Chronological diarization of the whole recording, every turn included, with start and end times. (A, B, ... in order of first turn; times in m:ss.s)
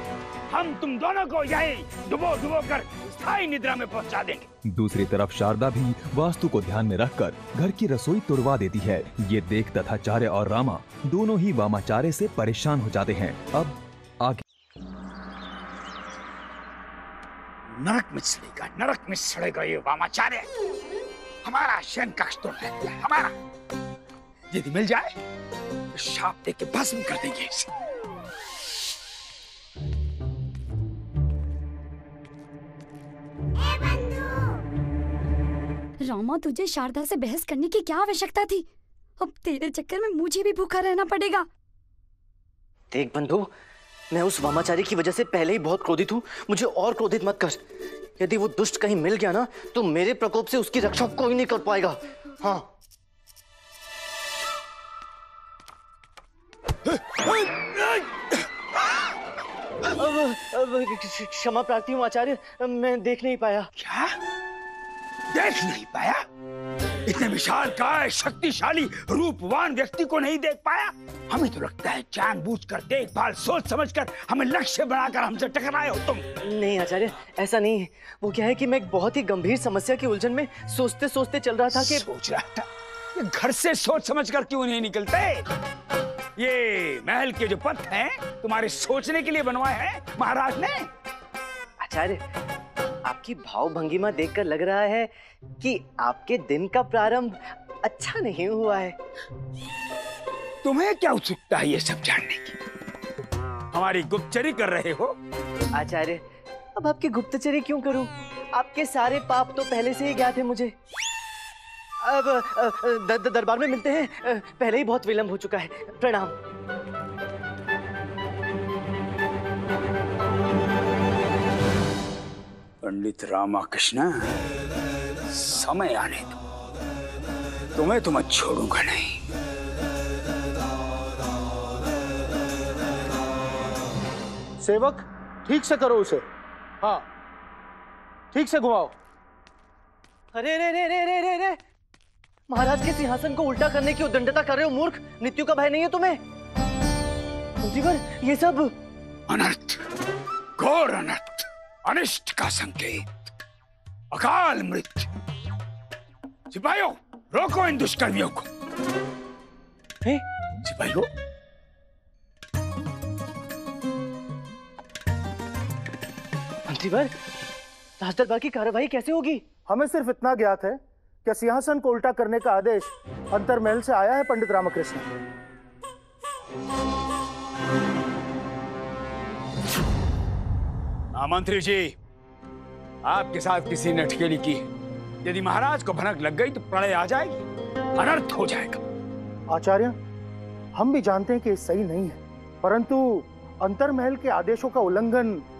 0:00.5-0:04.5 A
0:04.7-0:14.4 B
0:17.7-0:20.5 A
0:21.4-0:23.3 A
0:24.5-0:25.1 A
0:25.9-0:27.7 A
0:36.0-0:38.6 C
0:39.2-0:41.4 C
0:42.9-0:43.5 D
0:44.1-0:47.6 D
0:48.2-0:52.7 D
0:56.8-0:59.1 A
0:59.9-1:03.7 D
1:03.8-1:04.1 A
1:05.3-1:06.2 A
1:07.0-1:16.2 A
1:16.4-1:22.0 D
1:21.8-1:25.4 A
1:26.4-1:30.9 A
1:31.8-1:32.2 D
1:33.0-1:39.0 D
1:40.6-1:42.6 A
1:43.7-1:45.1 A
1:45.7-1:46.2 D
1:46.8-1:50.7 D
1:52.0-1:56.4 D
2:02.8-2:04.5 A
2:05.3-2:06.4 A
2:07.8-2:09.2 A
2:14.6-2:16.2 E
2:16.8-2:17.1 E
2:18.3-2:19.0 E
2:20.3-2:21.6 D
2:22.5-2:26.2 D
2:27.6-2:28.7 D
2:29.3-2:29.8 A
2:30.6-2:33.3 A
2:34.1-2:35.1 A
2:36.5-2:38.5 A
2:40.6-2:41.1 A
2:46.7-2:47.1 D
2:48.0-2:49.4 D
2:49.7-2:55.1 E
3:01.1-3:01.9 A
3:03.0-3:04.7 A
3:05.2-3:07.4 A
3:07.9-3:08.8 A
3:09.5-3:10.0 E
3:10.7-3:15.4 E